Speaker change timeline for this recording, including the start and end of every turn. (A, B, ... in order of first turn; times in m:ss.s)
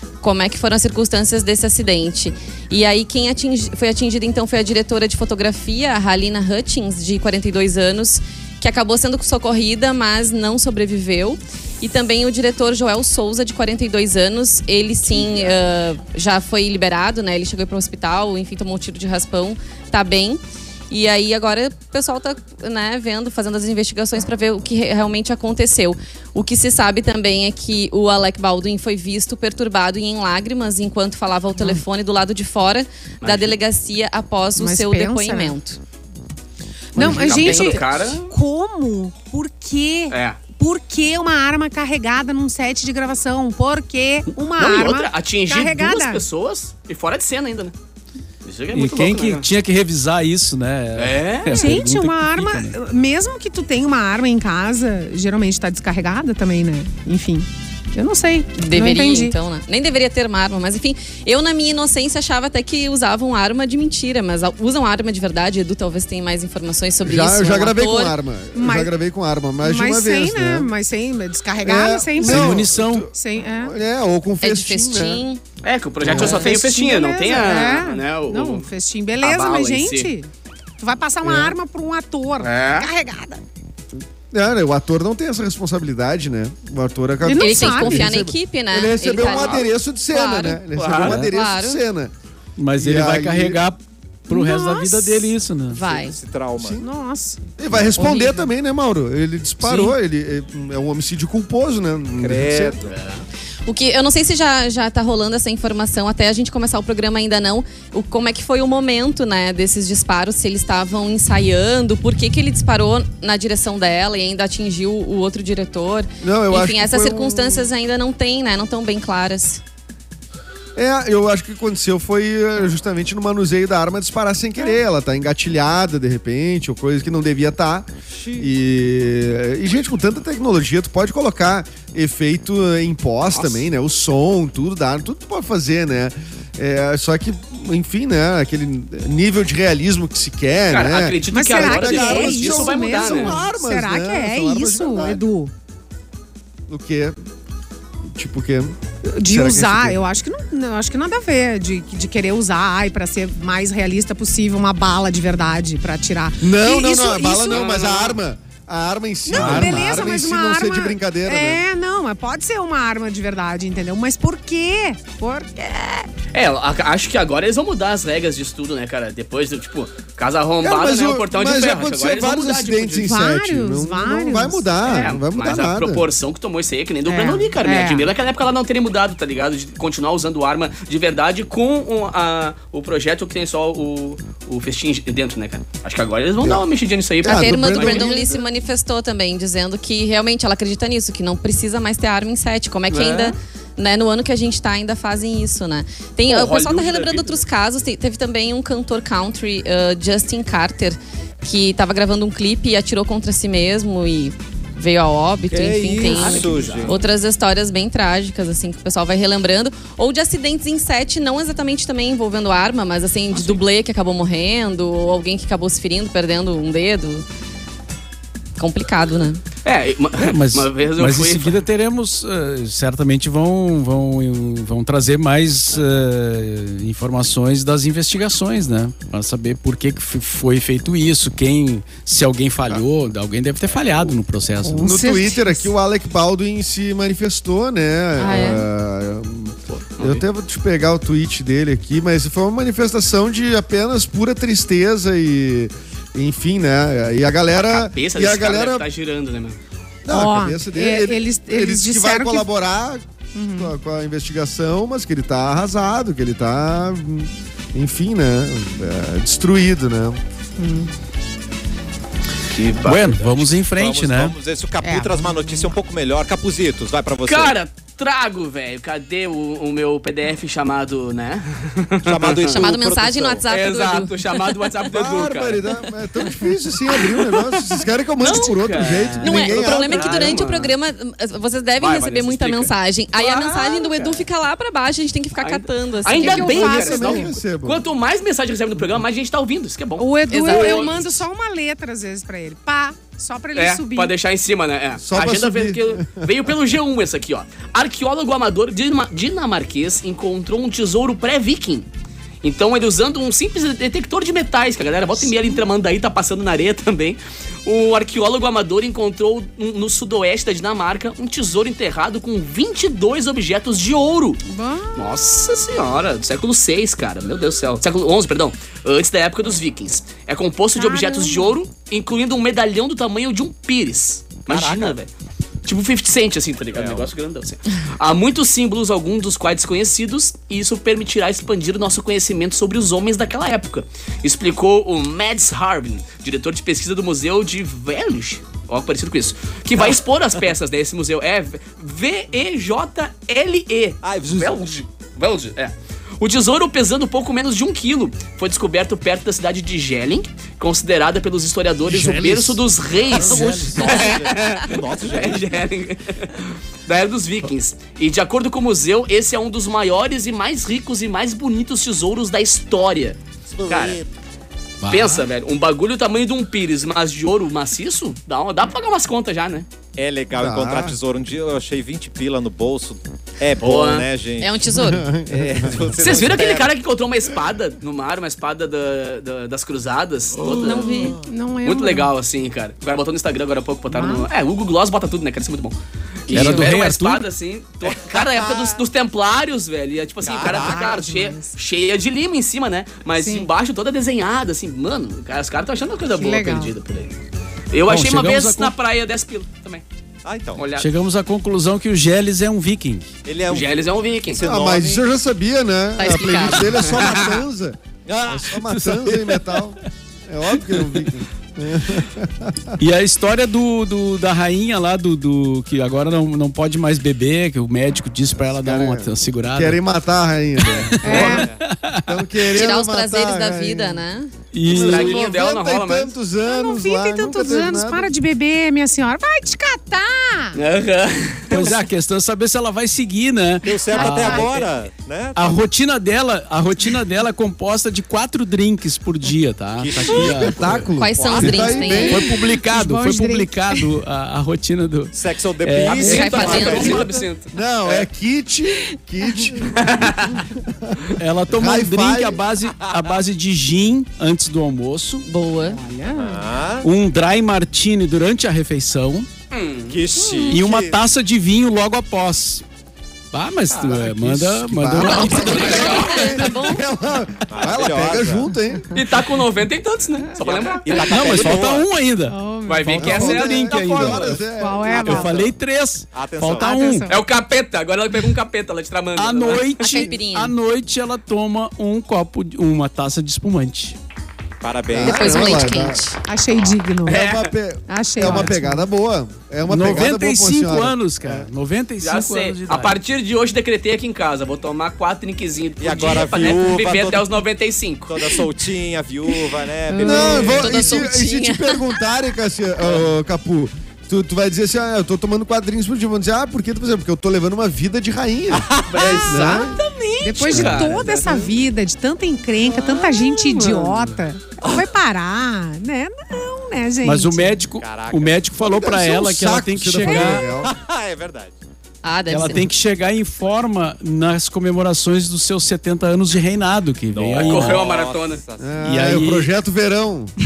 0:00.2-0:35.8 A
0:33.2-0:33.6 B
0:34.6-0:35.6 C
0:37.0-0:46.2 C
0:37.0-0:37.2 D
0:37.0-0:38.3 B
0:40.1-0:40.4 B
0:44.6-0:47.7 B
0:48.4-0:49.5 B
0:48.7-0:52.8 E
0:51.0-0:51.8 B
0:51.5-0:59.4 C
0:58.6-1:08.2 A
1:07.0-1:10.7 D
1:08.6-1:08.9 C
1:09.6-1:13.8 C
1:11.6-1:15.2 D
1:12.2-1:13.1 E
1:14.4-1:15.4 A
1:15.6-1:18.7 B
1:16.0-1:16.5 D
1:16.0-1:20.3 C
1:19.2-1:20.1 B
1:20.8-1:23.4 C
1:21.2-1:21.6 D
1:22.4-1:22.9 B
1:24.3-1:32.1 D
1:27.2-1:28.1 C
1:27.4-1:31.8 A
1:29.2-1:29.6 B
1:30.8-1:31.2 B
1:32.6-1:35.8 E
1:32.8-1:33.6 D
1:34.3-1:35.3 C
1:35.7-1:36.2 A
1:35.8-1:36.8 F
1:36.8-1:37.4 C
1:37.6-1:42.8 D
1:38.0-1:38.4 A
1:42.2-1:42.9 F
1:42.9-1:43.2 B
1:43.7-1:59.6 A
1:56.2-1:57.7 D
2:00.8-2:25.2 D
2:08.1-2:08.5 F
2:13.3-2:13.7 B
2:20.7-2:23.4 B
2:21.3-2:25.5 C
2:26.7-2:27.2 D
2:28.1-2:30.0 D
2:29.1-2:37.7 C
2:36.4-2:41.6 D
2:37.5-2:38.2 B
2:39.2-2:46.1 C
2:39.4-2:39.8 E
2:46.3-2:53.1 B
2:50.6-2:56.1 D
2:53.0-2:54.7 C
2:54.8-3:08.4 B
2:57.0-2:58.1 C
3:07.2-3:08.2 D
3:07.2-3:37.2 A
3:12.9-3:13.4 B
3:16.3-3:17.4 B
3:25.5-3:27.0 F
3:26.0-3:27.0 B
3:33.3-3:33.6 B
3:38.6-3:39.4 A
3:39.6-3:41.6 B
3:40.2-3:55.0 E
3:54.6-3:55.7 C
3:54.8-4:08.9 D
3:58.2-3:58.7 A
3:59.7-4:00.2 B
4:07.5-4:09.6 B
4:10.0-4:20.2 D
4:10.1-4:12.5 C
4:13.4-4:13.7 C
4:20.6-4:20.9 C
4:22.5-4:23.3 B
4:22.8-4:24.4 E
4:23.3-4:27.6 F
4:24.8-4:25.7 C
4:27.2-4:32.6 B
4:32.0-4:33.4 F
4:32.5-4:34.2 A
4:33.5-4:40.8 B
4:34.9-4:40.5 D
4:39.2-4:47.0 A
4:41.8-4:44.2 B
4:45.4-4:51.0 B
4:46.1-4:47.3 C
4:46.5-4:47.9 D
4:50.0-4:54.1 C
4:50.3-4:51.1 A
4:53.6-5:01.9 B
4:55.0-4:56.3 D
5:02.4-5:14.4 B
5:14.5-5:15.1 C
5:15.0-5:25.1 B
5:20.8-5:21.6 C
5:24.5-5:25.0 F
5:25.6-6:04.0 B
5:26.8-5:27.1 F
5:44.0-5:44.7 F
5:51.8-5:53.9 E
5:53.1-5:55.5 F
6:03.5-6:04.1 F
6:04.8-6:05.2 E
6:04.9-6:09.7 B
6:10.0-6:14.6 F
6:10.4-6:11.0 D
6:13.6-6:14.1 B
6:14.4-6:15.1 A
6:14.7-6:16.2 D
6:15.2-6:16.7 F
6:16.0-6:37.1 B
6:20.4-6:21.0 F
6:20.6-6:21.2 A
6:20.8-6:22.1 C
6:23.9-6:24.3 C
6:26.3-6:27.2 E
6:26.3-6:26.7 A
6:27.8-6:28.8 F
6:30.2-6:31.0 F
6:30.5-6:31.5 C
6:33.2-6:33.5 C
6:36.1-6:36.7 C
6:37.7-6:39.8 B
6:37.8-6:38.7 E
6:40.2-6:40.6 F
6:40.6-6:40.9 B
6:40.8-6:43.1 E
6:43.3-6:45.0 F
6:43.5-6:44.4 B
6:44.4-6:52.8 D
6:46.0-6:46.8 A
6:46.8-6:47.4 B
6:48.1-6:48.5 F
6:48.8-6:49.4 E
6:52.8-6:59.8 E
6:58.4-7:01.3 D
7:00.9-7:02.2 E
7:01.0-7:01.5 C
7:01.1-7:01.4 B
7:01.1-7:01.7 F
7:02.1-7:04.0 D
7:02.5-7:04.3 A
7:04.5-7:05.2 E
7:04.6-7:08.1 D
7:04.7-7:06.1 B
7:06.4-7:10.6 C
7:10.6-7:11.8 B
7:11.5-7:14.6 E
7:13.6-7:15.6 F
7:13.7-7:14.6 C
7:15.4-7:20.8 E
7:19.8-7:22.0 F
7:20.3-7:22.3 D
7:21.0-7:22.3 A
7:22.0-7:23.9 C
7:22.1-7:27.0 E
7:25.1-7:27.1 F
7:25.9-7:27.5 B
7:26.0-7:27.0 A
7:26.6-7:32.4 D
7:29.6-7:30.4 B
7:31.2-7:35.3 E
7:32.8-7:33.2 F
7:35.2-7:35.8 A
7:35.7-7:36.5 C
7:36.1-7:36.9 F
7:36.8-7:39.3 E
7:39.5-7:40.0 B
7:39.9-7:41.0 F
7:40.2-7:40.5 A
7:40.5-7:42.6 E
7:43.3-7:45.8 E
7:43.9-7:49.0 D
7:45.3-7:46.4 B
7:45.8-7:46.8 A
7:47.5-7:48.5 F
7:48.9-7:51.5 B
7:50.4-7:51.9 F
7:50.4-7:51.3 C
7:51.0-7:54.4 E
7:52.3-7:53.1 C
7:52.7-7:54.4 B
7:53.0-7:55.5 D
7:54.6-7:55.5 C
7:54.9-7:57.1 E
7:56.1-7:56.9 F
7:56.6-7:57.2 C
7:57.1-7:59.7 B
7:59.2-8:04.0 E
7:59.7-8:00.6 A
8:04.6-8:05.6 F
8:04.9-8:06.0 D
8:05.0-8:06.2 A
8:06.3-8:07.3 C
8:07.1-8:07.5 B
8:07.1-8:11.5 D
8:07.9-8:08.9 C
8:09.7-8:13.0 E
8:12.0-8:18.4 B
8:15.8-8:17.3 F
8:18.1-8:21.0 F
8:19.9-8:20.6 C
8:20.0-8:29.8 D
8:20.4-8:21.9 A
8:28.5-8:29.0 F
8:28.8-8:31.5 B
8:29.0-8:37.6 C
8:30.5-8:31.0 E
8:32.9-8:33.5 A
8:37.0-8:40.4 E
8:37.8-8:38.5 F
8:38.6-8:40.7 D
8:40.1-8:40.4 C
8:40.4-8:41.6 F
8:42.0-8:42.7 A
8:42.3-8:47.8 E
8:47.1-8:48.7 F
8:47.4-8:48.4 B
8:48.6-8:50.3 D
8:48.8-8:49.5 E